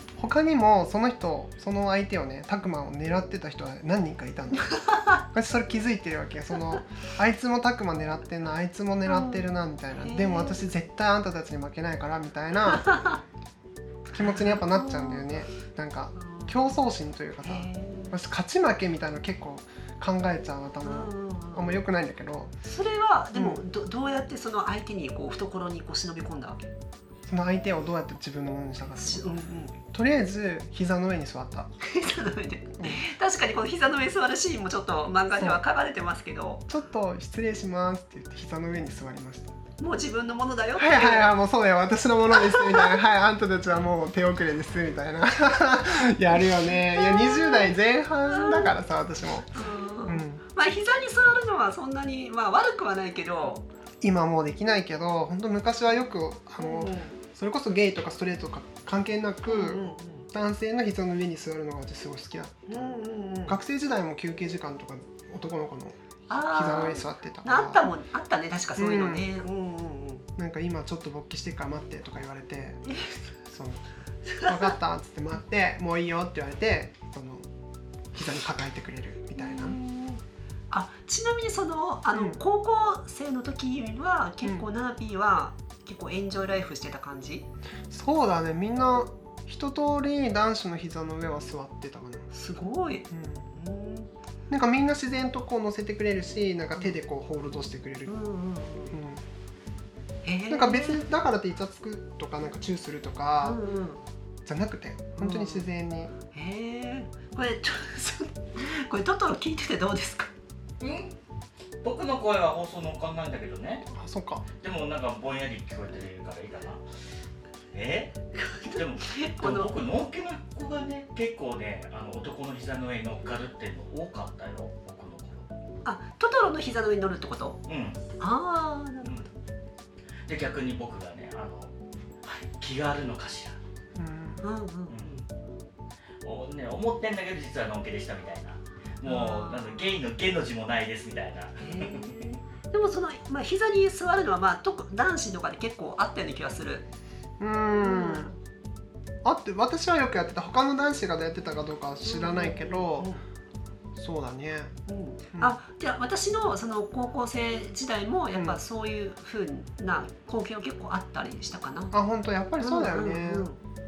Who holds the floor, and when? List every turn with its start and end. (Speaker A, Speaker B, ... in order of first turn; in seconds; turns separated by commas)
Speaker A: 0.2-12.9, Speaker B: 9.1-9.5, Speaker B: 10.0-10.6, Speaker B: 12.7-13.2, Speaker B: 14.1-15.3, Speaker A: 14.1-22.6, Speaker B: 16.2-16.7, Speaker B: 17.4-18.1, Speaker B: 20.8-21.8, Speaker B: 22.6-26.7, Speaker A: 23.3-23.6, Speaker A: 27.3-29.2, Speaker B: 29.0-29.8, Speaker A: 29.9-31.7, Speaker B: 31.8-36.6, Speaker A: 35.3-35.6, Speaker A: 36.7-39.5, Speaker B: 39.8-41.3, Speaker A: 40.8-50.4, Speaker B: 42.3-43.0, Speaker B: 46.7-47.8, Speaker B: 48.3-48.8, Speaker B: 49.5-53.6, Speaker A: 54.0-67.8, Speaker B: 56.6-57.2, Speaker B: 59.5-60.3, Speaker B: 62.7-63.6, Speaker B: 66.3-70.2, Speaker A: 68.8-69.3, Speaker A: 70.4-72.8, Speaker B: 72.9-73.2, Speaker A: 73.5-73.8, Speaker B: 74.2-74.8, Speaker A: 74.4-77.5, Speaker A: 78.1-79.8, Speaker B: 79.4-87.5, Speaker A: 87.9-92.3, Speaker B: 92.3-94.1, Speaker A: 93.1-93.5, Speaker A: 94.5-98.1, Speaker B: 98.1-99.0, Speaker A: 98.9-99.2, Speaker B: 100.2-101.0, Speaker A: 100.5-103.6, Speaker B: 103.4-104.0, Speaker A: 104.5-106.1, Speaker B: 105.2-105.7, Speaker B: 106.3-110.3, Speaker C: 110.8-111.1, Speaker C: 111.8-113.9, Speaker A: 113.9-114.4, Speaker C: 114.6-116.8, Speaker C: 117.7-125.5, Speaker B: 118.3-119.7, Speaker B: 125.8-127.6, Speaker C: 127.7-128.0, Speaker B: 128.2-129.3, Speaker C: 130.2-131.7, Speaker C: 132.2-133.6, Speaker A: 134.0-134.4, Speaker B: 134.4-135.2, Speaker C: 136.2-142.1, Speaker B: 139.1-139.9, Speaker B: 141.6-146.9, Speaker A: 147.4-148.3, Speaker B: 147.8-148.3, Speaker A: 149.2-153.1, Speaker B: 152.0-153.2, Speaker A: 154.0-154.8, Speaker B: 154.9-161.9, Speaker A: 158.3-158.6, Speaker A: 161.9-163.5, Speaker B: 162.6-163.6